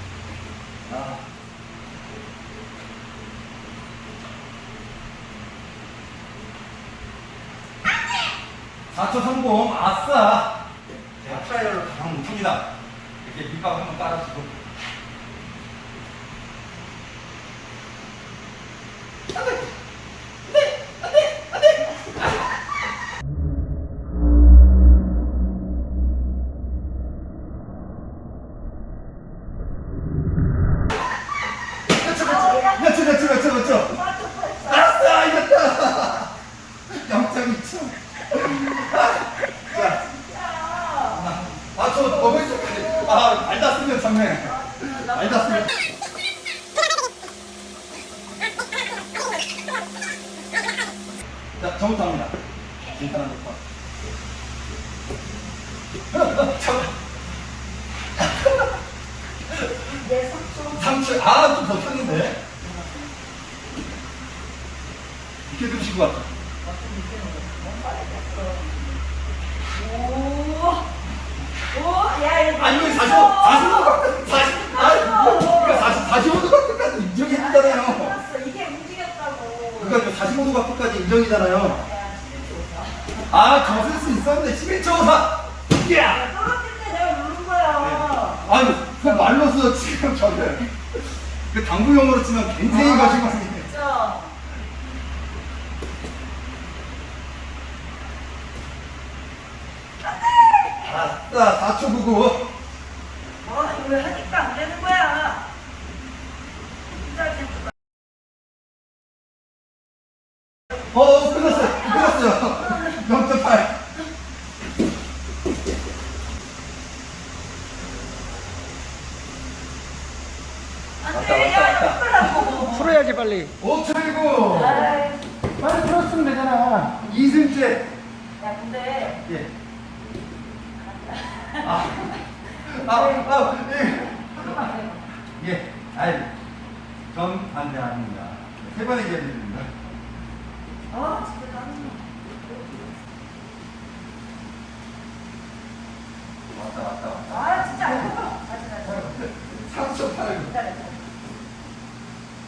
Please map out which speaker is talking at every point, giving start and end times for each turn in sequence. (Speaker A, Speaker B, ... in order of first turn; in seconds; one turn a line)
Speaker A: 0.9-1.2
Speaker A: 8.9-10.6
Speaker A: 11.2-12.7
Speaker A: 13.2-14.6
Speaker A: 20.6-21.9
Speaker A: 31.9-34.0
Speaker B: 32.0-35.0
Speaker A: 34.6-36.3
Speaker A: 36.9-40.0
Speaker B: 39.5-41.4
Speaker A: 41.1-45.8
Speaker B: 42.2-43.2
Speaker B: 44.4-45.8
Speaker A: 51.6-52.4
Speaker A: 52.9-53.6
Speaker A: 56.1-56.9
Speaker A: 58.2-58.6
Speaker B: 59.7-61.0
Speaker A: 60.7-62.4
Speaker B: 62.6-63.0
Speaker A: 65.5-66.3
Speaker B: 66.6-68.8
Speaker B: 69.7-70.9
Speaker B: 71.7-74.0
Speaker A: 72.5-78.2
Speaker B: 74.7-76.1
Speaker B: 77.2-80.0
Speaker A: 79.8-81.8
Speaker B: 81.6-84.2
Speaker A: 83.2-86.2
Speaker B: 86.0-88.5
Speaker A: 87.8-93.7
Speaker B: 92.6-94.3
Speaker B: 100.0-100.9
Speaker A: 100.8-102.5
Speaker B: 103.4-105.5
Speaker B: 107.0-107.7
Speaker A: 110.9-113.8
Speaker B: 111.6-113.0
Speaker B: 121.0-123.0
Speaker A: 121.1-122.6
Speaker C: 122.7-123.5
Speaker A: 123.5-124.9
Speaker B: 124.5-125.2
Speaker A: 125.6-127.8
Speaker C: 125.7-126.9
Speaker B: 128.4-129.2
Speaker B: 130.8-131.8
Speaker A: 131.6-134.7
Speaker B: 132.7-133.4
Speaker B: 134.4-135.0
Speaker A: 135.4-136.3
Speaker A: 137.1-139.7
Speaker B: 140.9-142.8
Speaker A: 146.5-148.2
Speaker B: 147.3-149.3
Speaker A: 148.9-150.5
Speaker B: 150.4-151.0